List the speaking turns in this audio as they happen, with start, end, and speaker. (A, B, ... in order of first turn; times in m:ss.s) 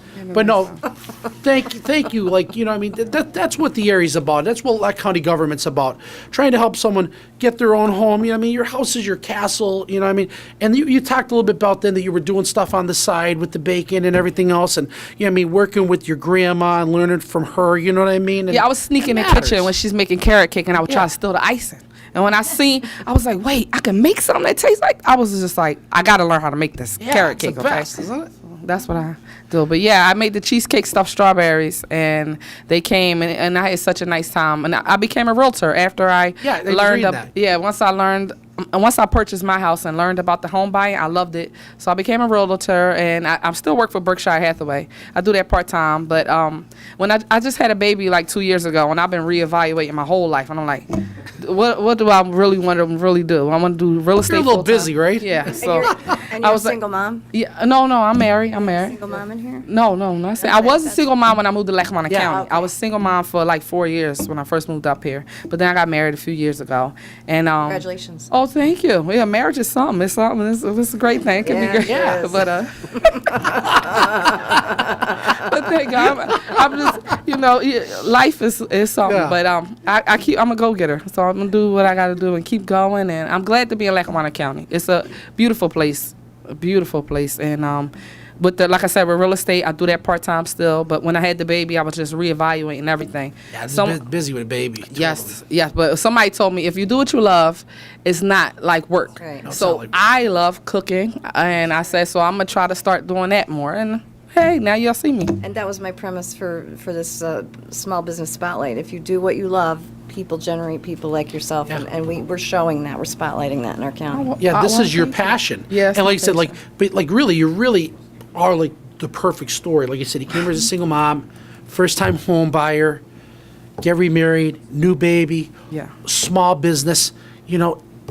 0:00.2-0:00.8 A
0:00.3-0:19.7 B
0:18.5-0:28.0 A
0:27.0-0:28.3 B
0:28.5-0:50.8 A
0:36.4-0:37.3 B
0:51.4-0:56.8 A
0:54.2-0:55.9 B
0:55.5-0:57.2 C
0:57.3-0:59.0 A
0:58.6-0:59.6 C
0:59.6-1:34.0 A
1:00.4-1:01.0 C
1:02.1-1:02.4 B
1:02.3-1:02.7 C
1:07.6-1:08.3 C
1:11.4-1:14.9 C
1:11.8-1:12.3 B
1:19.0-1:19.4 B
1:33.5-1:35.4 B
1:34.9-1:45.4 A
1:39.2-1:39.5 C
1:39.4-1:40.0 B
1:45.4-1:54.3 C
1:54.1-1:56.6 A
1:54.4-2:03.0 B
2:03.8-2:05.5 B
2:06.0-2:07.8 B